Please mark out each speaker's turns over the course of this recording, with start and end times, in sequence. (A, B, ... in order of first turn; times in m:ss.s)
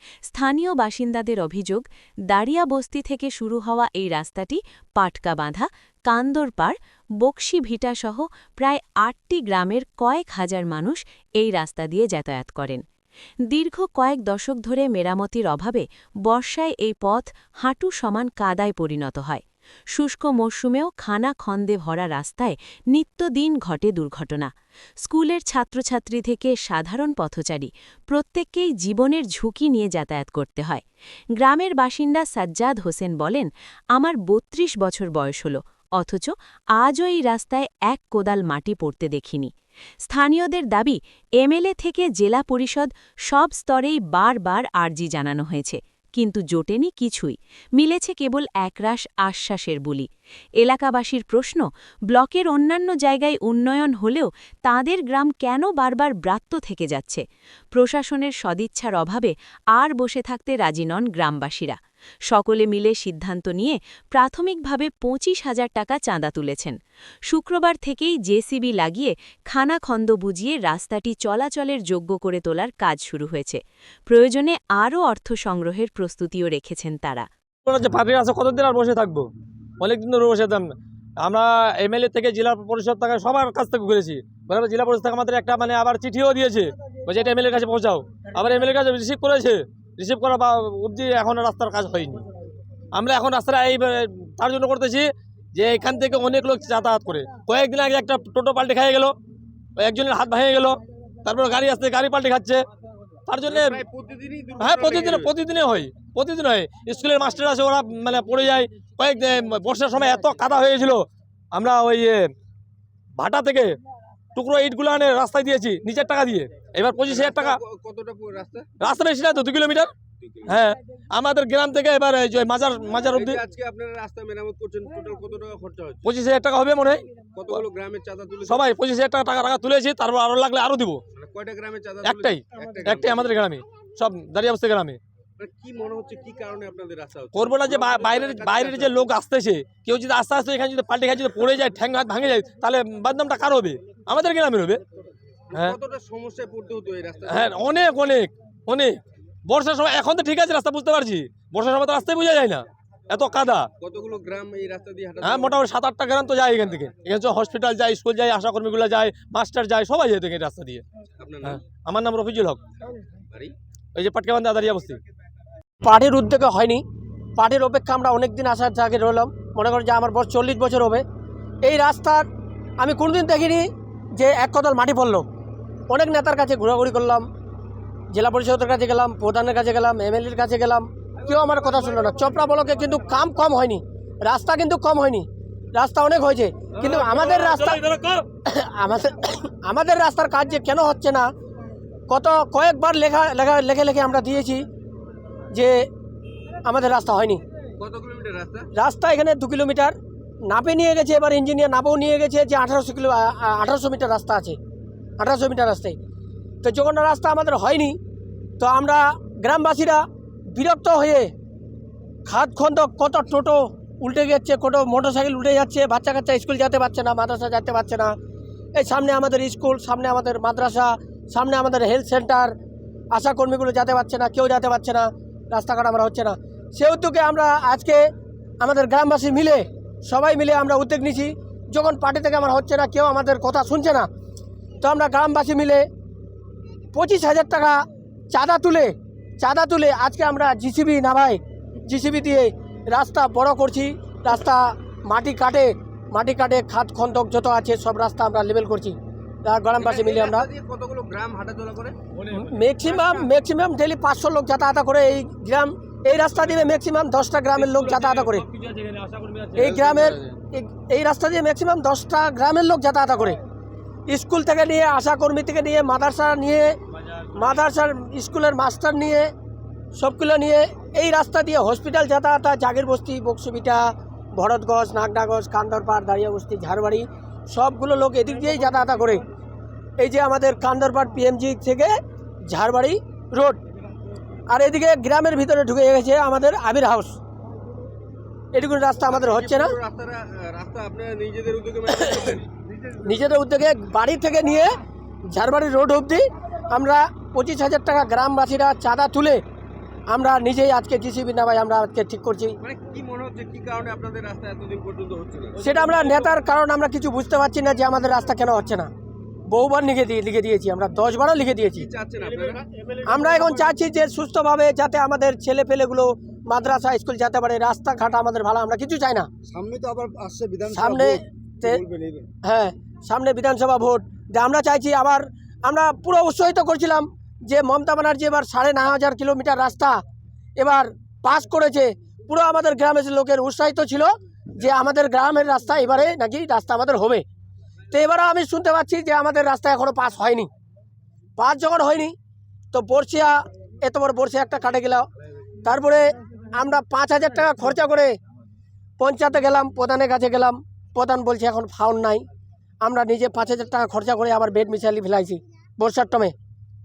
0:00.3-0:12.8 A
0:13.5-0:24.5 A
0:25.0-0:30.8 A
0:31.4-0:39.5 A
0:40.1-0:50.1 A
0:50.6-1:01.8 A
1:02.3-1:17.3 A
1:17.7-1:19.3 B
1:19.8-1:20.7 B
1:21.2-1:32.2 B
1:32.9-1:39.2 B
1:39.8-1:42.6 B
1:43.3-1:43.8 B
1:43.5-1:45.3 C
1:44.6-1:52.3 B
1:53.2-1:53.8 B
1:54.4-1:57.6 B
1:57.1-1:58.7 C
1:58.8-1:59.9 B
2:00.2-2:00.5 C
2:00.5-2:03.4 B
2:03.1-2:06.1 C
2:06.0-2:07.0 B
2:07.3-2:08.7 C
2:08.5-2:11.0 B
2:11.1-2:13.3 C
2:12.0-2:15.0 B
2:15.4-2:19.0 C
2:17.4-2:24.8 B
2:25.5-2:27.7 C
2:27.3-2:33.7 B
2:33.8-2:35.6 C
2:35.2-2:40.8 B
2:41.2-2:41.6 C
2:41.4-2:42.6 B
2:44.0-2:45.0 B
2:45.8-2:46.8 D
2:47.4-2:51.0 D
2:51.6-2:52.3 D
2:52.8-2:55.3 D
2:55.9-2:57.3 D
2:58.1-3:07.8 D
3:06.7-3:08.3 B
3:08.5-3:11.3 D
3:12.1-3:14.6 D
3:15.5-3:15.9 D
3:16.6-3:17.4 D
3:17.8-3:18.7 C
3:18.8-3:24.6 D
3:25.2-3:26.0 D
3:26.6-3:28.0 D
3:28.6-3:31.3 D
3:32.3-3:38.2 D
3:38.8-3:42.6 D
3:43.1-3:48.0 D
3:48.6-3:54.1 D
3:54.8-3:55.9 D
3:56.9-3:57.8 D
3:58.3-4:10.5 D
4:09.8-4:12.1 C
4:12.3-4:18.5 D
4:12.8-4:13.3 C
4:18.5-4:20.1 B
4:19.6-4:23.4 D
4:24.1-4:26.8 D
4:27.3-4:29.3 D
4:30.0-4:39.2 D
4:40.0-4:42.0 D
4:42.5-4:43.6 D
4:44.5-4:47.2 D
4:48.5-4:49.7 D
4:49.1-4:53.0 C
4:53.0-4:54.7 D
4:55.3-4:59.4 D
5:00.1-5:02.6 D
5:02.6-5:05.7 C
5:05.6-5:08.9 D
5:09.5-5:11.9 D
5:11.7-5:12.6 C
5:13.0-5:19.3 D
5:19.5-5:22.3 E
5:20.7-5:21.8 D
5:22.4-5:30.0 D
5:30.6-5:37.2 D
5:37.9-5:40.5 D
5:41.4-5:42.2 D
5:42.7-5:45.1 D
5:45.6-5:48.1 D
5:49.0-5:52.2 D
5:52.8-5:56.3 D